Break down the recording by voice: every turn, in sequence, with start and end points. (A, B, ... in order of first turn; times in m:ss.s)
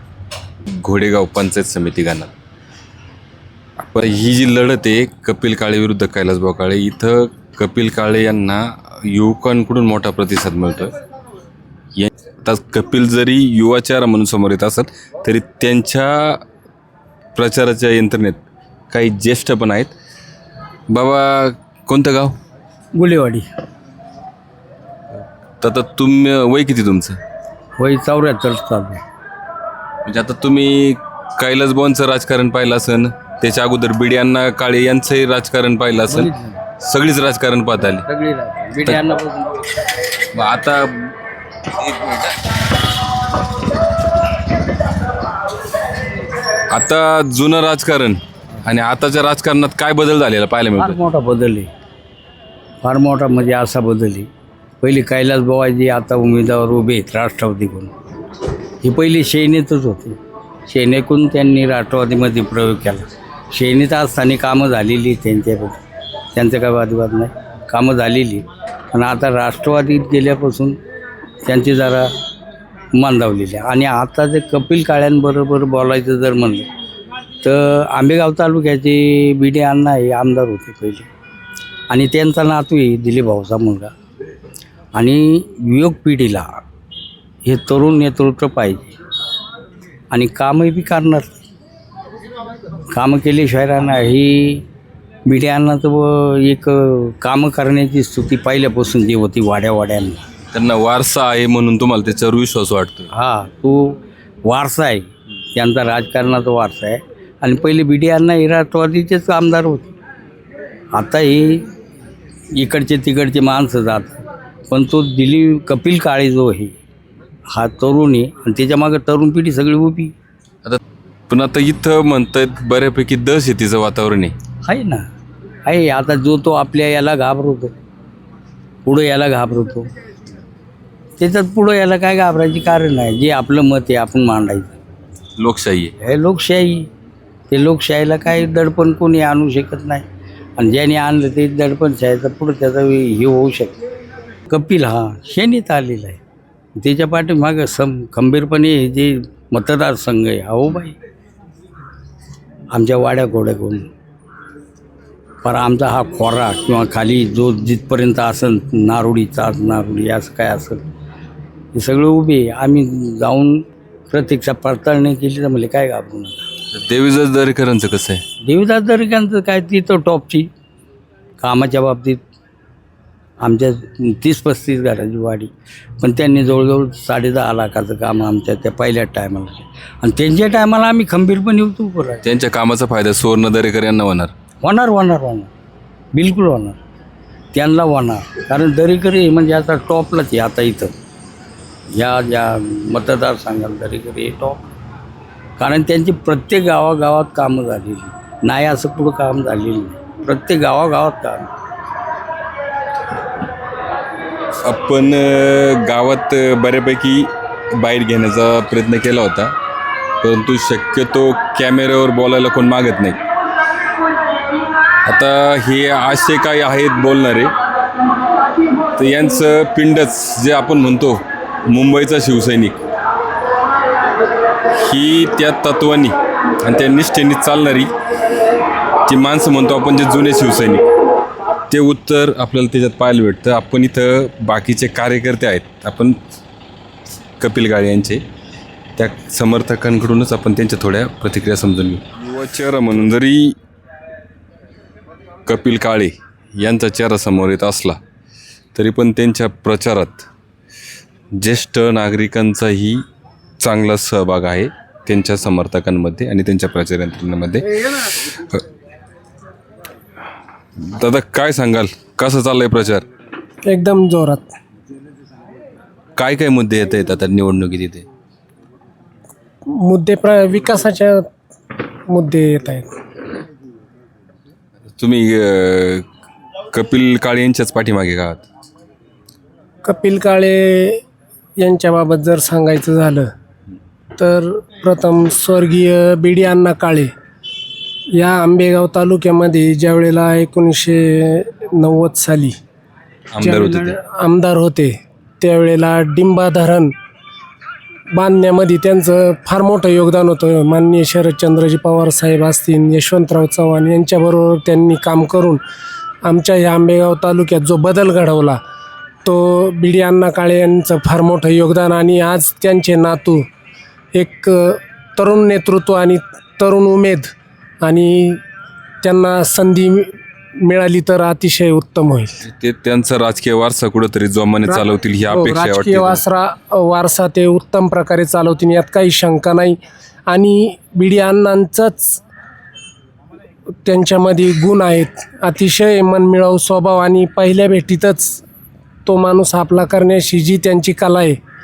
0:00.8-0:02.3 A
0:03.8-0:10.9 A
0:12.0-0:16.4 A
0:17.3-0:19.9 A
0:20.9-0:22.3 A
0:23.0-0:23.4 B
0:25.6-0:27.2 A
0:27.8-0:28.8 B
0:30.0-0:36.3 A
0:36.8-0:38.0 A
0:40.3-0:41.1 A
0:41.8-0:42.3 A
0:46.7-0:51.0 A
0:50.9-0:51.6 B
0:52.9-0:54.2 B
0:54.9-0:57.8 B
0:58.9-1:00.1 B
1:00.7-1:03.0 B
1:03.6-1:05.7 B
1:06.4-1:08.4 B
1:09.0-1:10.7 B
1:11.5-1:12.0 B
1:13.0-1:16.6 B
1:17.5-1:21.0 B
1:21.9-1:23.8 B
1:25.7-1:26.4 B
1:27.5-1:28.9 B
1:30.1-1:31.2 B
1:33.0-1:34.2 B
1:35.3-1:35.8 B
1:37.3-1:40.2 B
1:40.5-1:43.1 A
1:44.5-1:45.0 B
1:45.6-1:49.8 B
1:51.0-1:51.4 B
1:52.6-1:54.0 B
1:54.7-1:56.7 B
1:57.6-2:00.1 B
2:00.6-2:04.3 A
2:05.7-2:07.7 B
2:08.9-2:09.8 B
2:11.2-2:14.7 B
2:15.4-2:15.9 A
2:16.1-2:16.7 B
2:17.6-2:20.0 B
2:20.6-2:23.7 B
2:24.6-2:26.1 B
2:26.9-2:29.0 B
2:29.6-2:30.9 B
2:32.8-2:33.7 B
2:35.5-2:40.7 B
2:41.8-2:43.4 B
2:44.1-2:46.3 B
2:46.7-2:48.2 A
2:48.5-2:50.4 B
2:51.4-2:52.1 B
2:54.3-2:55.4 B
2:56.0-2:59.5 B
3:00.1-3:02.1 B
3:02.2-3:04.3 A
3:04.7-3:05.4 B
3:06.2-3:06.7 B
3:07.6-3:10.9 B
3:12.0-3:12.4 B
3:13.0-3:14.5 B
3:15.6-3:21.4 B
3:24.6-3:27.3 A
3:27.8-3:29.5 A
3:30.2-3:33.2 A
3:35.0-3:37.5 A
3:39.0-3:42.8 A
3:44.8-3:47.9 A
3:49.0-3:50.8 A
3:51.7-3:56.2 A
3:57.4-3:58.2 A
3:59.0-4:03.5 A
4:05.4-4:08.0 A
4:08.7-4:10.3 A
4:11.4-4:13.0 A
4:13.6-4:18.6 A
4:21.0-4:23.0 A
4:23.6-4:24.5 C
4:26.2-4:28.0 A
4:29.8-4:31.2 C
4:32.1-4:32.9 C
4:35.0-4:36.0 A
4:36.7-4:38.4 A
4:39.8-4:41.0 C
4:41.6-4:43.3 C
4:44.2-4:47.1 C
4:48.2-4:52.6 C
4:53.3-4:54.0 A
4:53.4-4:56.9 C
4:58.1-5:05.6 C
5:06.2-5:08.6 C
5:09.2-5:13.4 C
5:14.1-5:18.4 C
5:19.0-5:20.1 C
5:20.6-5:22.3 C
5:22.4-5:26.2 A
5:24.6-5:29.8 C
5:30.3-5:32.2 C
5:33.8-5:38.4 C
5:39.1-5:41.4 C